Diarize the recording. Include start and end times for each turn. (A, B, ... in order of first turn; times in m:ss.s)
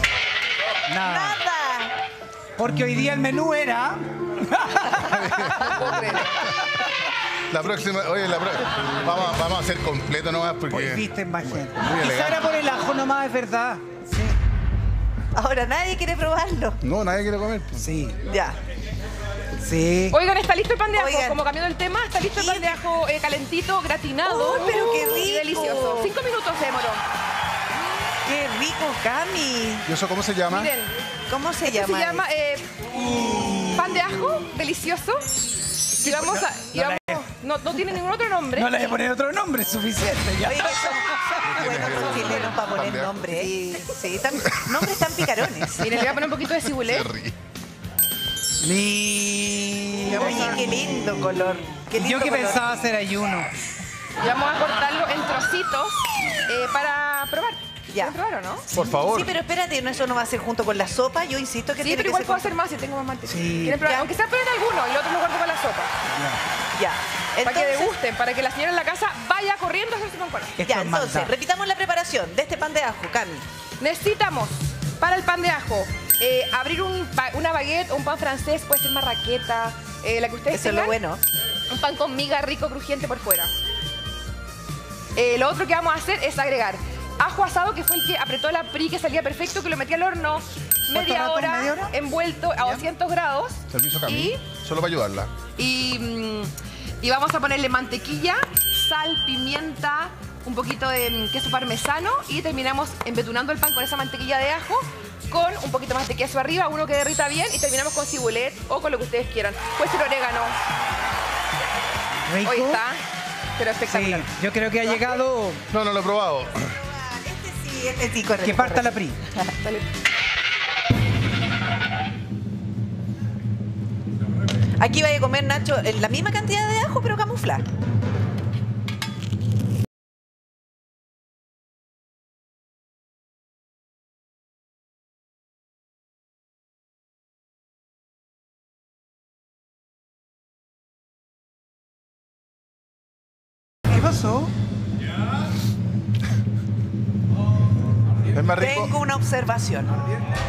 0:00.9-0:01.4 A
0:01.0-0:01.9 B
0:02.6-0:05.9 A
0:05.0-0:06.6 C
0:05.6-0:06.3 D
0:07.5-0:12.4 C
0:10.7-0:14.4 A
0:15.3-0:16.8 B
0:16.8-0:17.8 C
0:17.8-0:18.2 A
0:18.2-0:18.6 B
0:19.6-0:20.2 A
0:20.1-0:27.0 D
0:20.9-0:21.4 B
0:22.2-0:22.8 B
0:24.2-0:26.1 B
0:28.2-0:29.9 B
0:29.8-0:30.7 C
0:30.5-0:30.9 D
0:31.3-0:32.2 B
0:31.6-0:32.8 D
0:33.2-0:33.8 A
0:33.7-0:35.3 D
0:35.9-0:38.8 D
0:36.0-0:37.2 A
0:38.5-0:42.3 A
0:40.4-0:45.8 B
0:41.4-0:43.2 C
0:44.4-0:46.0 C
0:45.8-0:47.1 D
0:46.6-0:47.3 C
0:48.6-0:51.2 A
0:50.1-0:52.6 B
0:51.9-0:53.5 A
0:54.2-0:58.6 D
0:58.7-0:59.4 C
0:59.0-1:02.5 B
1:01.8-1:05.9 D
1:03.3-1:03.8 A
1:03.8-1:04.1 B
1:06.1-1:06.4 A
1:06.7-1:07.9 B
1:07.4-1:10.6 D
1:10.6-1:11.3 A
1:10.6-1:13.4 B
1:13.8-1:20.9 D
1:20.5-1:21.2 B
1:21.7-1:23.5 D
1:25.1-1:34.4 D
1:30.9-1:31.9 A
1:32.6-1:32.8 A
1:33.7-1:35.3 C
1:35.6-1:50.6 D
1:52.3-1:52.8 A
1:52.4-1:53.0 D
1:53.6-1:54.2 D
1:53.8-1:55.6 A
1:55.7-1:56.7 C
1:56.7-1:59.5 B
1:58.4-1:59.2 A
1:59.6-1:59.9 D
2:04.8-2:07.6 B
2:23.9-2:24.5 A
2:28.3-2:28.9 C
2:28.6-2:30.0 B